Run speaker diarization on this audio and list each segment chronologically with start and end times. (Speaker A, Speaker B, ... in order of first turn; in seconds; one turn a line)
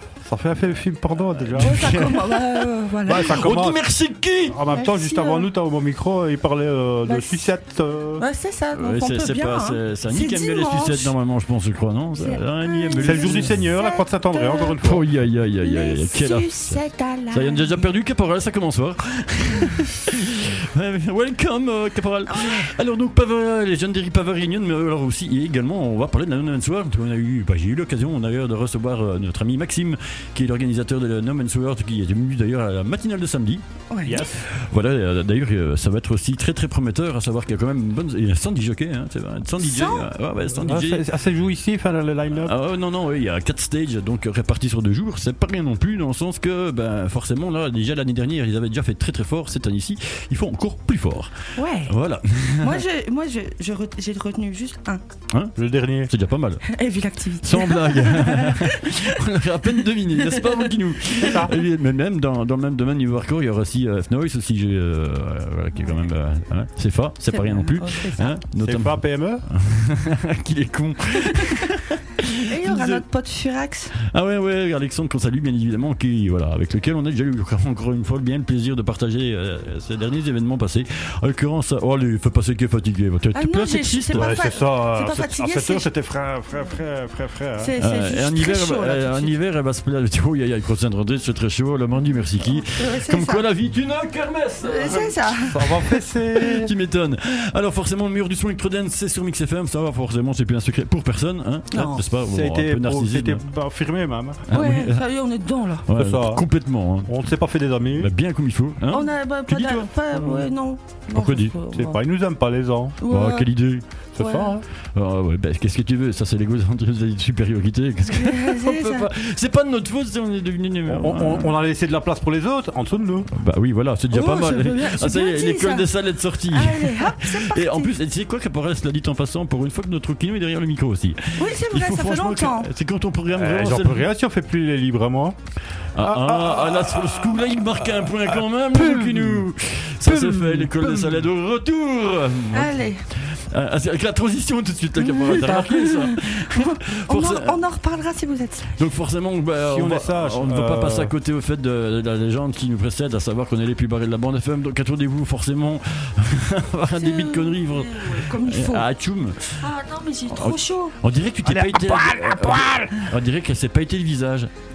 Speaker A: 0.2-2.0
Speaker B: 1.5-4.6
Speaker C: 1.6-3.4
Speaker A: 3.0-3.8
Speaker A: 4.5-8.2
Speaker C: 4.7-5.5
Speaker C: 7.0-7.5
Speaker C: 8.2-11.1
Speaker B: 8.7-13.6
Speaker C: 12.2-14.8
Speaker A: 13.0-15.1
Speaker B: 14.8-41.0
Speaker C: 15.6-17.9
Speaker C: 22.3-22.7
Speaker C: 33.9-34.2
Speaker A: 34.0-34.5
Speaker C: 39.6-40.1
Speaker A: 40.5-42.5
Speaker B: 42.4-52.8
Speaker C: 51.5-51.9
Speaker C: 52.6-55.0
Speaker B: 55.3-56.7
Speaker A: 55.6-56.1
Speaker C: 56.7-59.1
Speaker B: 57.4-73.0
Speaker C: 60.3-60.7
Speaker A: 61.2-61.5
Speaker C: 67.3-68.4
Speaker A: 68.6-69.4
Speaker C: 71.3-71.7
Speaker C: 72.5-73.9
Speaker B: 74.1-84.4
Speaker C: 83.3-85.9
Speaker A: 84.1-87.7
Speaker C: 87.6-89.3
Speaker B: 87.8-95.2
Speaker C: 92.5-93.4
Speaker C: 94.6-96.0
Speaker A: 95.4-96.7
Speaker B: 96.3-103.4
Speaker C: 101.7-102.0
Speaker A: 102.2-104.5
Speaker B: 104.5-105.0
Speaker C: 104.5-105.8
Speaker B: 105.8-107.2
Speaker A: 106.0-106.4
Speaker A: 107.0-108.1
Speaker B: 107.9-110.5
Speaker C: 108.9-112.0
Speaker B: 111.1-111.5
Speaker A: 111.7-113.0
Speaker C: 113.0-113.5
Speaker B: 113.1-113.8
Speaker A: 114.2-114.6
Speaker C: 114.2-114.5
Speaker B: 114.9-121.5
Speaker C: 118.1-119.1
Speaker A: 120.9-123.3
Speaker B: 123.3-134.1
Speaker C: 124.1-125.9
Speaker C: 126.5-127.9
Speaker C: 131.3-132.7
Speaker A: 133.3-135.4
Speaker B: 135.9-147.6
Speaker A: 136.0-137.3
Speaker A: 138.7-139.4
Speaker A: 140.0-141.2
Speaker C: 142.5-143.0
Speaker C: 145.0-148.9
Speaker B: 148.8-159.6
Speaker A: 149.6-151.1
Speaker C: 157.0-158.9
Speaker C: 159.6-160.9
Speaker B: 160.3-164.5
Speaker A: 161.4-162.9